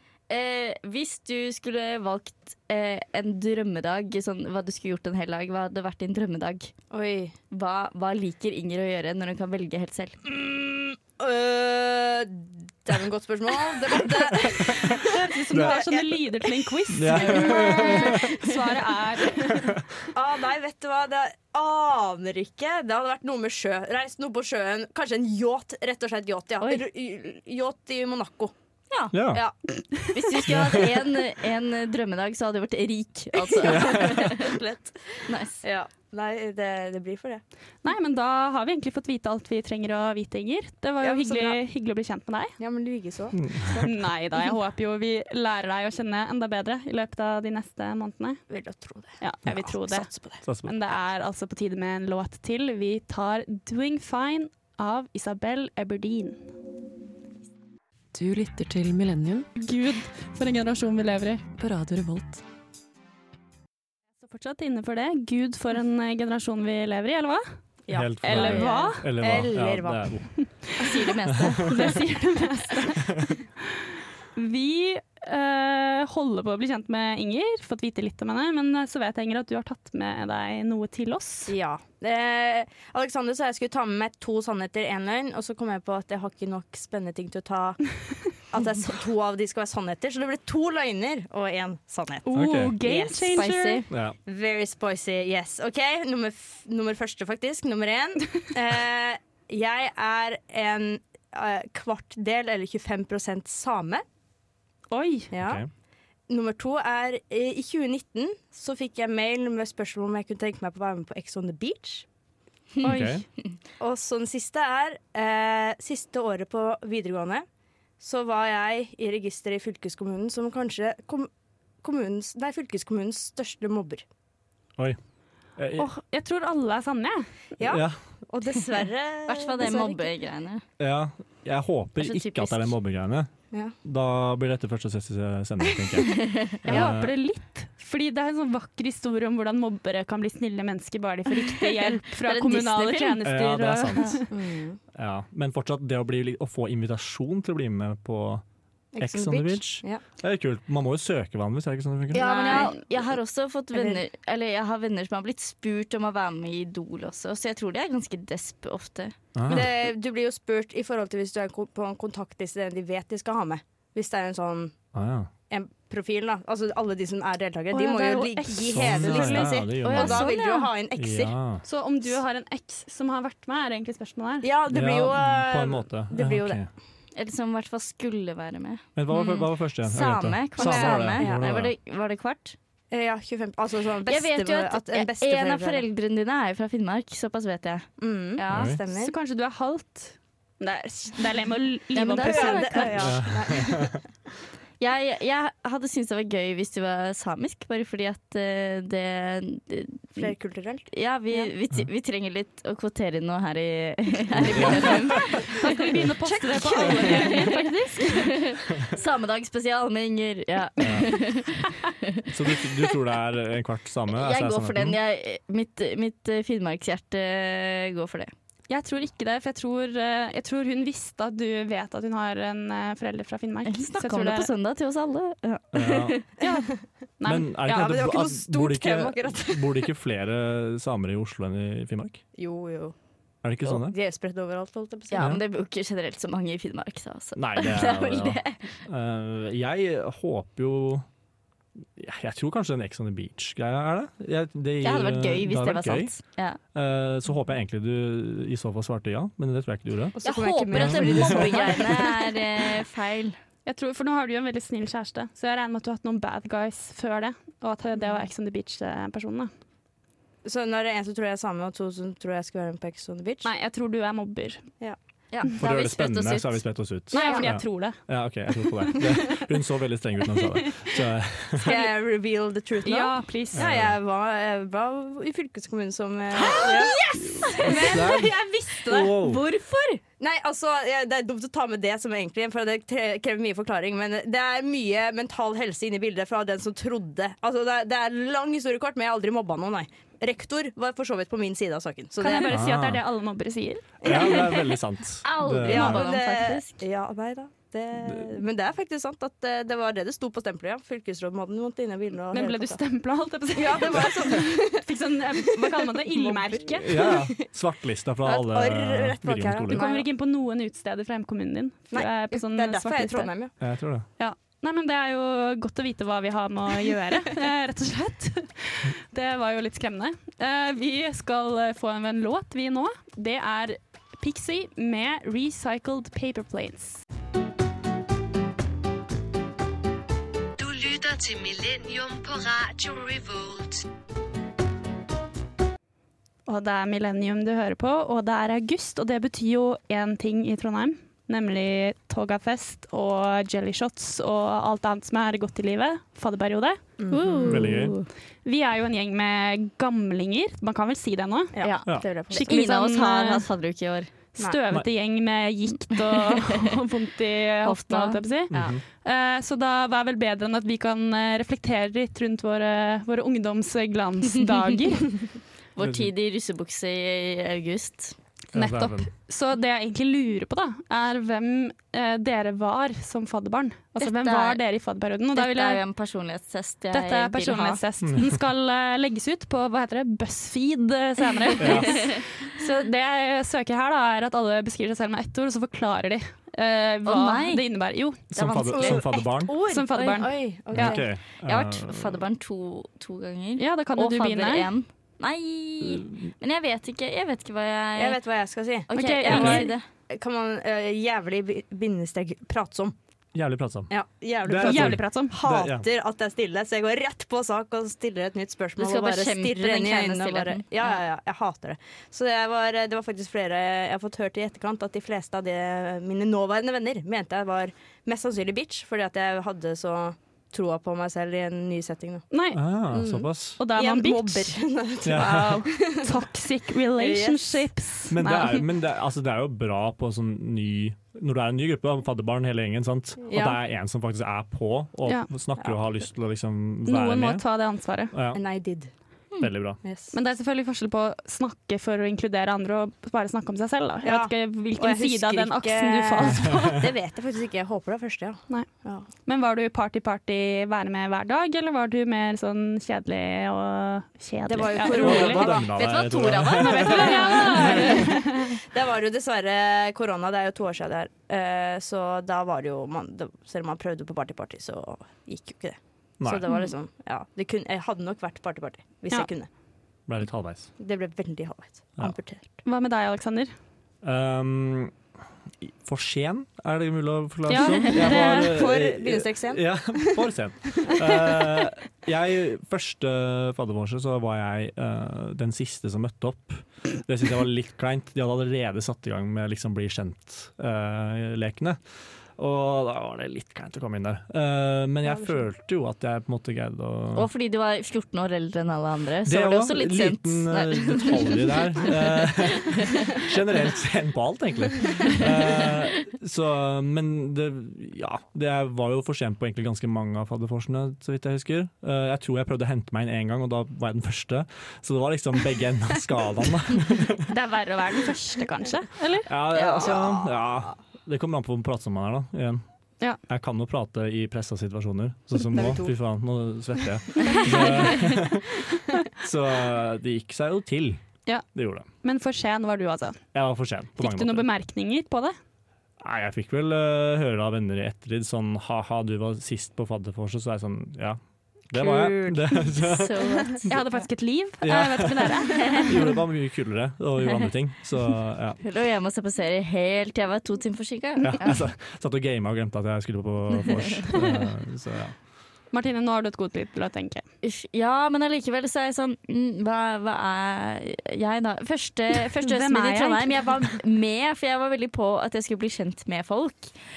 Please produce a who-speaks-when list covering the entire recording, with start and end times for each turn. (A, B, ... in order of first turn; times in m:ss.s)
0:00.3-0:06.7 A
0:06.9-0:07.4 B
0:07.5-0:10.2 A
0:10.2-0:16.5 B
0:14.9-0:19.7 C
0:15.5-0:15.8 D
0:16.9-0:18.4 D
0:17.5-0:18.2 A
0:20.1-0:28.5 B
0:29.1-0:29.4 D
0:30.1-0:34.6 A
0:30.5-0:31.0 D
0:33.6-0:35.0 B
0:33.6-0:34.4 D
0:35.3-0:35.6 A
0:35.6-0:37.4 B
0:37.8-0:42.6 C
0:41.0-0:41.6 B
0:42.6-0:44.0 B
0:43.4-0:43.8 D
0:43.8-0:48.4 C
0:48.5-0:50.4 B
0:49.2-0:56.4 C
0:50.4-0:50.7 D
0:58.1-0:59.5 E
0:59.6-1:01.5 C
1:01.6-1:02.4 E
1:04.2-1:07.4 C
1:07.9-1:10.2 B
1:07.9-1:10.3 D
1:08.2-1:09.1 C
1:10.8-1:12.0 A
1:11.3-1:11.8 D
1:11.7-1:13.8 C
1:14.4-1:21.5 C
1:21.5-1:44.0 B
1:32.2-1:33.8 C
1:32.3-1:32.8 D
1:33.9-1:34.2 D
1:44.9-1:45.3 C
1:45.3-1:45.6 B
1:45.4-1:45.7 D
1:46.3-1:52.1 B
1:52.8-1:53.2 C
1:52.8-1:53.2 D
1:53.8-1:57.5 B
1:58.0-2:01.3 B
2:01.8-2:04.0 B
2:05.6-2:05.9 D
2:05.8-2:07.3 C
2:07.6-2:10.0 B
2:07.6-2:08.0 D
2:09.3-2:10.6 A
2:10.8-2:13.3 D
2:12.0-2:12.7 A
2:13.8-2:17.1 D
2:16.2-2:16.6 A
2:16.7-2:24.3 C
2:21.6-2:23.2 A
2:23.2-2:24.2 D
2:24.3-2:24.8 B
2:24.9-2:28.4 D
2:28.9-2:30.0 B
2:29.0-2:32.3 D
2:32.1-2:39.2 A
2:32.2-2:32.8 B
2:33.7-2:34.0 B
2:39.4-2:39.7 D
2:39.5-2:44.7 B
2:44.9-2:45.3 D
2:45.5-2:51.4 B
2:47.7-2:50.2 C
2:48.7-2:50.3 D
2:49.9-2:50.7 A
2:50.9-2:51.6 D
2:51.6-2:54.5 C
2:54.4-2:56.6 B
2:54.7-2:56.7 D
2:57.2-3:02.6 A
2:59.0-3:01.7 D
3:00.6-3:01.4 B
3:02.9-3:05.8 B
3:04.1-3:08.8 A
3:08.0-3:09.2 B
3:08.5-3:08.8 D
3:08.9-3:13.0 C
3:12.0-3:13.1 A
3:12.2-3:14.0 B
3:13.0-3:14.0 D
3:14.8-3:20.3 A
3:20.2-3:21.5 B
3:20.9-3:25.5 A
3:24.5-3:25.4 D
3:24.6-3:25.5 B
3:25.5-3:28.3 C
3:26.2-3:27.5 B
3:27.4-3:32.2 A
3:30.8-3:31.2 D
3:32.3-3:35.0 D
3:34.1-3:38.3 A
3:38.7-3:44.5 C
3:43.7-3:46.3 A
3:45.7-3:46.2 D
3:46.4-3:47.9 C
3:47.2-3:52.2 D
3:47.7-3:49.7 B
3:52.4-3:53.0 B
3:53.4-3:54.0 D
3:53.6-3:55.4 B
3:55.1-3:58.8 A
3:55.2-3:55.4 D
3:57.4-4:01.1 D
4:02.0-4:06.2 D
4:04.8-4:06.6 A
4:06.7-4:10.2 D
4:10.2-4:12.4 B
4:10.2-4:13.4 A
4:10.7-4:11.5 D
4:13.7-4:19.5 C
4:20.4-4:23.5 B
4:23.4-4:24.7 C
4:25.3-4:26.6 A
4:25.6-4:31.8 D
4:27.1-4:28.0 C
4:27.2-4:27.5 B
4:28.7-4:29.4 C
4:30.3-4:31.0 C
4:31.6-4:37.0 B
4:32.8-4:33.6 C
4:33.5-4:34.0 D
4:36.4-4:38.0 A
4:37.2-4:39.4 D
4:37.6-4:39.2 B
4:39.1-4:40.0 A
4:40.2-4:52.6 B
4:52.2-4:53.9 C
4:52.5-4:53.0 D
4:54.0-4:54.8 B
4:54.0-4:56.0 D
4:55.2-4:56.8 A
4:55.6-5:02.8 B
5:02.3-5:07.1 C
5:03.6-5:04.8 B
5:05.6-5:07.4 B
5:06.8-5:09.8 D
5:08.2-5:10.1 B
5:09.7-5:13.3 C
5:11.9-5:13.5 B
5:13.6-5:14.1 D
5:14.2-5:27.0 C
5:30.6-5:33.8 F
5:36.5-5:46.8 C
5:47.0-5:47.8 B
5:47.1-5:48.1 A
5:47.5-5:48.0 D
5:48.4-5:53.5 C
5:51.6-5:52.6 B
5:51.6-5:54.1 A
5:54.4-6:05.2 C
5:57.6-5:58.6 A
5:58.5-5:58.8 D
6:05.8-6:08.2 A
6:05.8-6:06.1 D
6:08.5-6:09.1 D
6:08.5-6:15.8 C
6:14.0-6:14.6 A
6:15.4-6:17.8 A
6:16.9-6:29.0 C
6:18.0-6:18.3 D
6:21.6-6:22.1 D
6:21.8-6:22.2 A
6:27.1-6:27.6 A
6:28.3-6:29.6 D
6:28.7-6:31.0 B
6:29.7-6:30.4 C
6:30.8-6:32.2 D
6:30.8-6:38.2 A
6:33.6-6:34.7 C
6:35.8-6:36.3 D
6:38.0-6:43.0 B
6:38.9-6:39.8 A
6:38.9-6:39.7 C
6:43.3-6:43.9 D
6:43.9-7:02.3 B
6:44.4-6:45.9 D
6:44.6-6:45.4 C
6:48.8-6:51.0 A
7:02.3-7:02.6 C
7:02.5-7:03.6 D
7:02.9-7:06.1 B
7:03.6-7:04.6 C
7:05.0-7:05.6 D
7:05.1-7:08.7 C
7:07.0-7:07.7 B
7:08.1-7:17.4 D
7:13.3-7:13.6 B
7:16.9-7:18.1 C
7:18.1-7:18.4 D
7:18.3-7:18.9 B
7:19.4-7:19.8 D
7:19.8-7:20.1 B
7:20.1-7:26.8 C
7:24.0-7:29.1 B
7:28.5-7:35.6 C
7:34.5-7:36.0 B
7:35.0-7:38.0 D
7:35.7-7:38.0 A
7:36.6-7:38.6 C
7:37.0-7:49.5 B
7:50.1-7:50.7 D
7:50.8-7:52.5 B
7:52.6-7:53.5 C
7:54.0-7:55.0 D
7:55.6-8:11.8 D
7:57.5-7:58.5 C
7:57.9-8:00.2 B
8:00.8-8:01.4 B
8:12.4-8:17.3 D
8:15.1-8:15.3 B
8:17.2-8:23.0 A
8:19.2-8:37.3 D
8:37.3-8:39.3 C
8:39.3-8:42.6 D
8:39.6-8:39.9 A
8:39.6-8:40.4 B
8:43.3-8:51.9 D
8:45.5-8:45.9 B
8:47.3-8:48.0 B
8:51.3-8:53.2 C
8:53.3-8:54.5 D
8:54.0-8:55.4 C
8:56.0-9:03.5 D
9:01.9-9:02.3 B
9:02.8-9:03.7 A
9:03.6-9:05.9 C
9:04.6-9:08.6 D
9:08.6-9:11.6 A
9:11.2-9:15.2 D
9:13.6-9:14.0 A
9:15.7-9:17.2 C
9:17.4-9:26.7 A
9:22.4-9:23.3 C